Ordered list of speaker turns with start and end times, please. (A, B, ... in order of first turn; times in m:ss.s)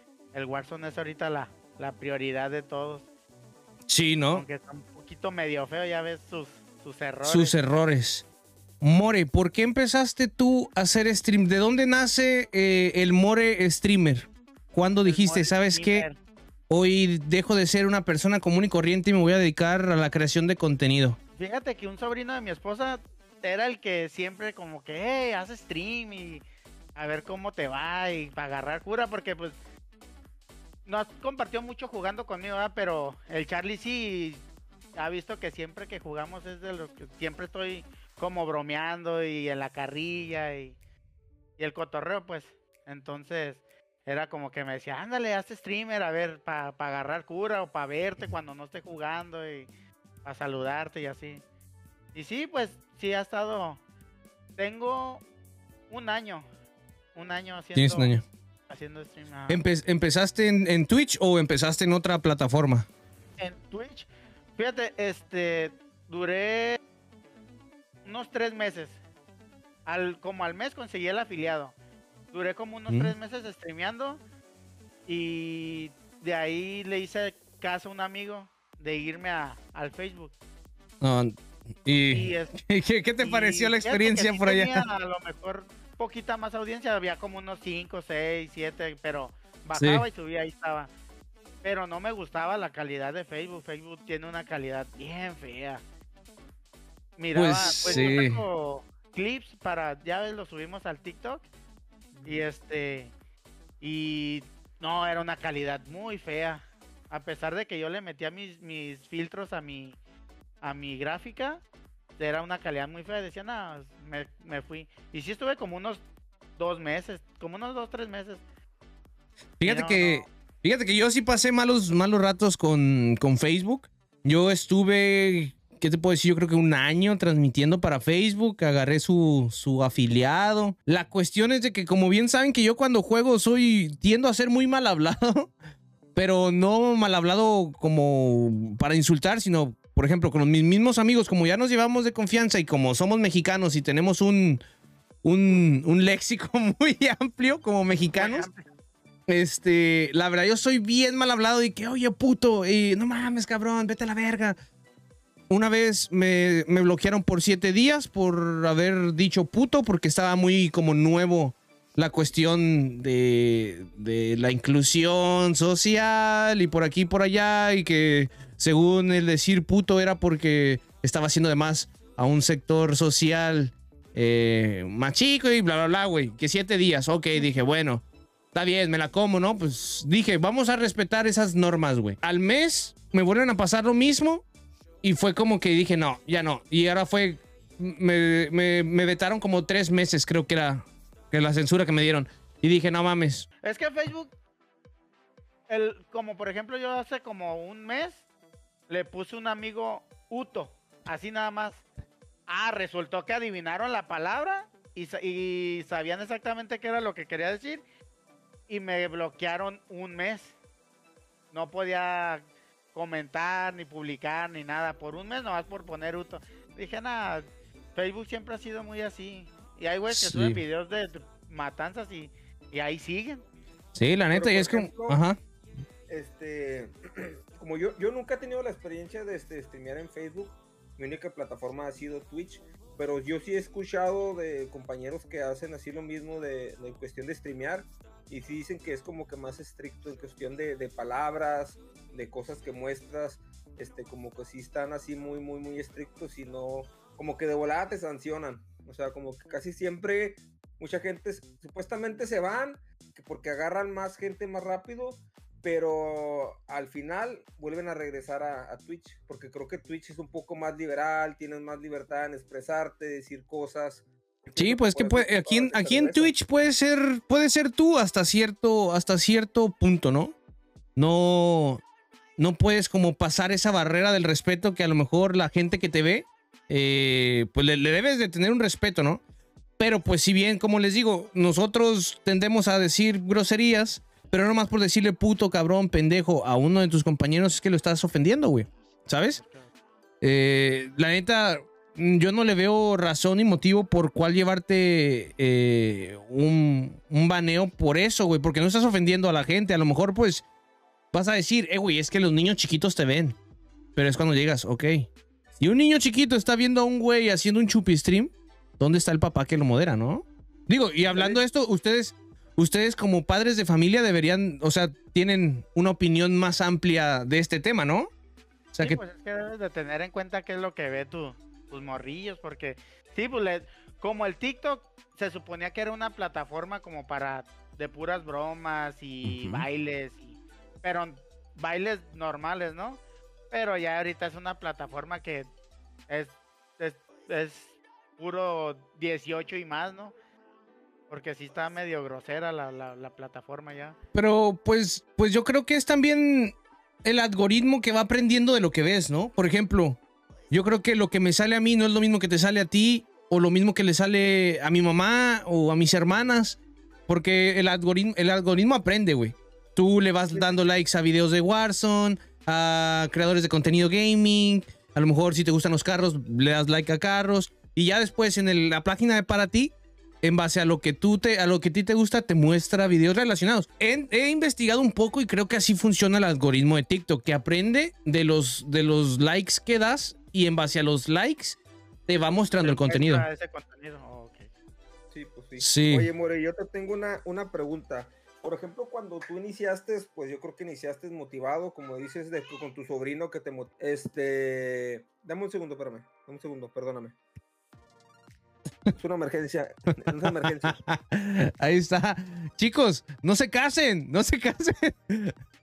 0:00.3-0:03.0 A
0:03.9-0:04.4 B
0:04.3-0:07.6 A
0:07.2-0:08.2 B
0:08.8-0:16.0 B
0:15.0-0:16.2 A
0:16.7-0:21.2 B
0:21.4-0:26.4 A
0:26.9-0:29.6 A
0:30.8-0:34.4 A
0:34.9-0:40.8 A
0:41.6-0:49.7 A
0:50.2-0:51.4 A
0:52.1-0:53.8 A
0:54.6-0:55.2 A
0:55.9-0:56.4 A
0:57.1-0:58.2 A
0:57.7-0:58.2 B
0:58.7-0:59.6 A
0:59.5-1:02.9 B
1:03.4-1:06.8 A
1:08.0-1:09.0 A
1:09.8-1:11.7 A
1:12.3-1:14.2 A
1:12.9-1:13.1 B
1:15.1-1:20.3 A
1:21.0-1:24.8 B
1:22.1-1:22.5 A
1:23.2-1:30.9 A
1:29.8-1:30.0 B
1:31.6-1:35.8 A
1:37.2-1:41.5 A
1:37.3-1:38.4 B
1:37.7-1:38.1 C
1:42.2-1:43.1 A
1:43.8-1:50.0 A
1:50.6-1:51.6 A
1:52.2-1:56.0 A
1:56.6-1:58.4 A
1:59.6-2:15.5 B
1:59.6-2:00.3 A
2:16.1-2:24.6 B
2:25.2-2:28.5 B
2:28.1-2:28.6 A
2:29.3-2:34.6 B
2:35.5-2:58.0 B
2:58.5-3:04.4 B
3:05.0-3:13.5 B
3:13.6-3:14.3 A
3:15.7-3:18.2 A
3:18.9-3:21.8 A
3:22.5-3:27.8 A
3:28.7-3:30.5 A
3:31.5-3:37.4 A
3:37.9-3:43.4 A
3:40.1-3:40.6 B
3:43.9-3:45.4 B
3:44.3-3:45.2 C
3:46.1-4:26.3 C
4:24.6-4:30.3 B
4:31.0-4:31.8 B
4:32.4-4:39.2 B
4:39.8-4:49.4 B
4:49.4-4:49.7 A
4:50.2-5:00.4 B
5:01.1-5:03.4 B
5:04.0-5:18.1 B
5:11.1-5:11.4 C
5:18.7-5:19.0 B
5:18.8-5:33.0 A
5:29.2-5:29.7 B
5:33.5-5:35.5 A
5:36.1-5:40.1 A
5:41.1-5:44.0 A
5:44.1-5:50.0 B
5:50.5-6:23.2 B
6:22.2-6:24.5 A
6:25.1-6:37.2 C
6:25.6-6:26.1 B
6:38.9-6:40.8 C
6:40.1-6:45.3 B